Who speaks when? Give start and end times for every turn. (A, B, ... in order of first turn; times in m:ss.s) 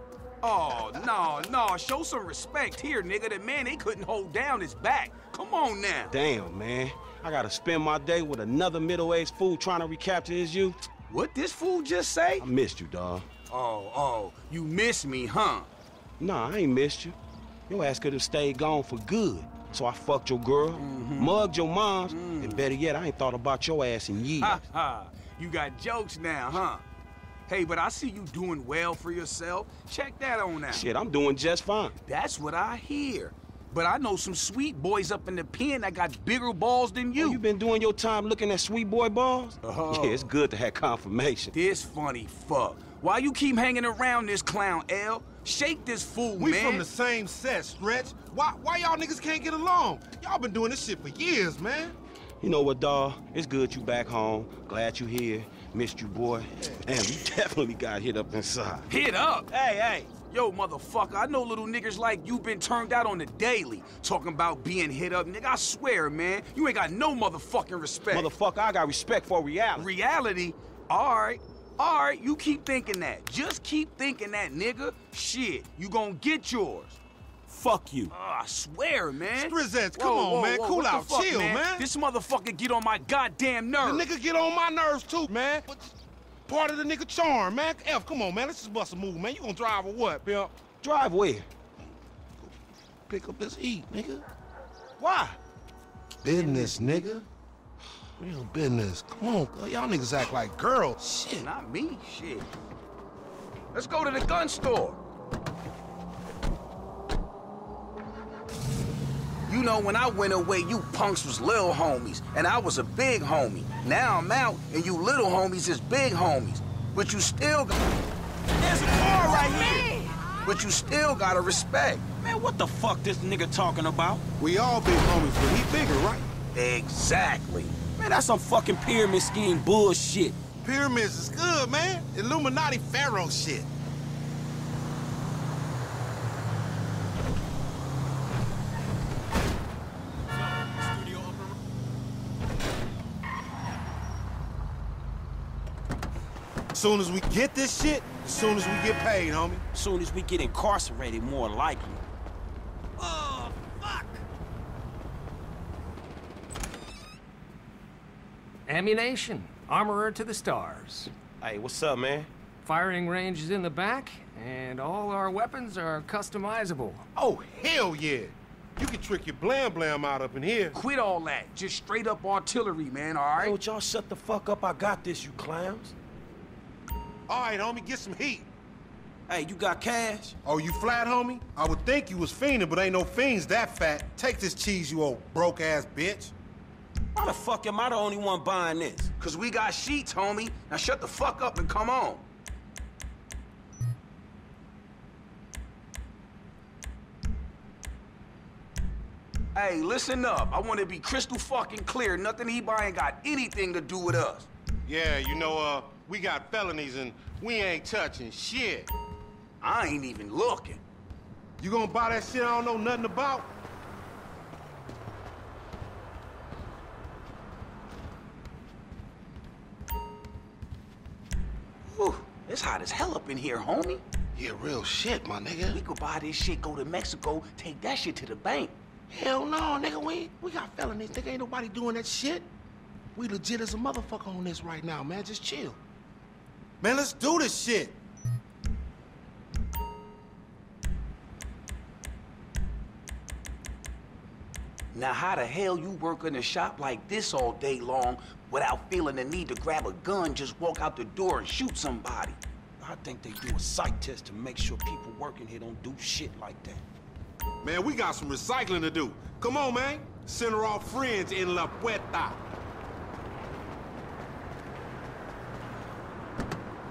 0:00.4-0:06.2 A
0:06.1-0:10.8 B
0:11.1-0:12.5 A
0:12.4-0:13.2 B
0:13.5-0:15.7 A
0:16.2-0:17.2 B
0:17.7-0:24.6 B
0:20.8-0:21.4 A
0:22.1-0:22.7 A
0:24.4-0:26.8 A
0:27.5-0:30.8 A
0:30.7-0:32.0 B
0:32.0-0:37.4 A
0:37.2-0:41.5 B
0:39.6-0:40.3 A
0:41.5-0:46.9 A
0:46.4-0:52.0 C
0:52.4-0:58.9 B
0:58.9-0:59.5 A
0:59.5-1:00.1 B
1:00.3-1:08.3 A
1:08.1-1:09.9 B
1:09.8-1:17.0 A
1:17.5-1:18.1 B
1:18.1-1:24.1 A
1:19.4-1:21.9 C
1:23.8-1:25.9 C
1:26.5-1:30.5 C
1:30.8-1:31.5 B
1:33.1-1:34.2 C
1:35.0-1:35.4 B
1:36.2-1:37.3 C
1:36.3-1:37.0 B
1:38.2-1:41.5 C
1:41.4-1:42.5 A
1:43.7-1:45.0 A
1:49.5-1:57.8 A
1:58.6-2:00.1 B
1:59.4-1:59.8 A
2:00.4-2:02.0 A
2:02.2-2:04.2 B
2:04.4-2:06.3 C
2:06.5-2:07.8 A
2:08.0-2:10.4 B
2:10.6-2:13.7 C
2:26.7-2:29.6 C
2:29.7-2:32.0 B
2:33.0-2:34.0 D
2:38.7-2:41.1 D
2:41.4-2:42.3 B
2:42.7-2:47.0 D
2:47.2-2:50.8 C
2:50.7-2:53.6 A
2:53.4-2:55.9 B
2:57.3-2:58.5 C
2:59.3-3:00.3 B
3:00.4-3:06.3 C
3:07.1-3:09.1 B
3:09.2-3:12.2 A
3:19.5-3:24.5 A
3:24.8-3:28.9 C
3:29.6-3:30.8 A
3:31.6-3:33.5 C
3:41.9-3:44.0 A
3:44.4-3:45.8 C
3:45.7-3:48.7 A
3:49.1-3:52.5 C
3:53.1-3:55.8 C
3:56.8-3:58.0 C
4:04.9-4:12.4 A
4:12.8-4:16.8 B
4:17.6-4:22.4 C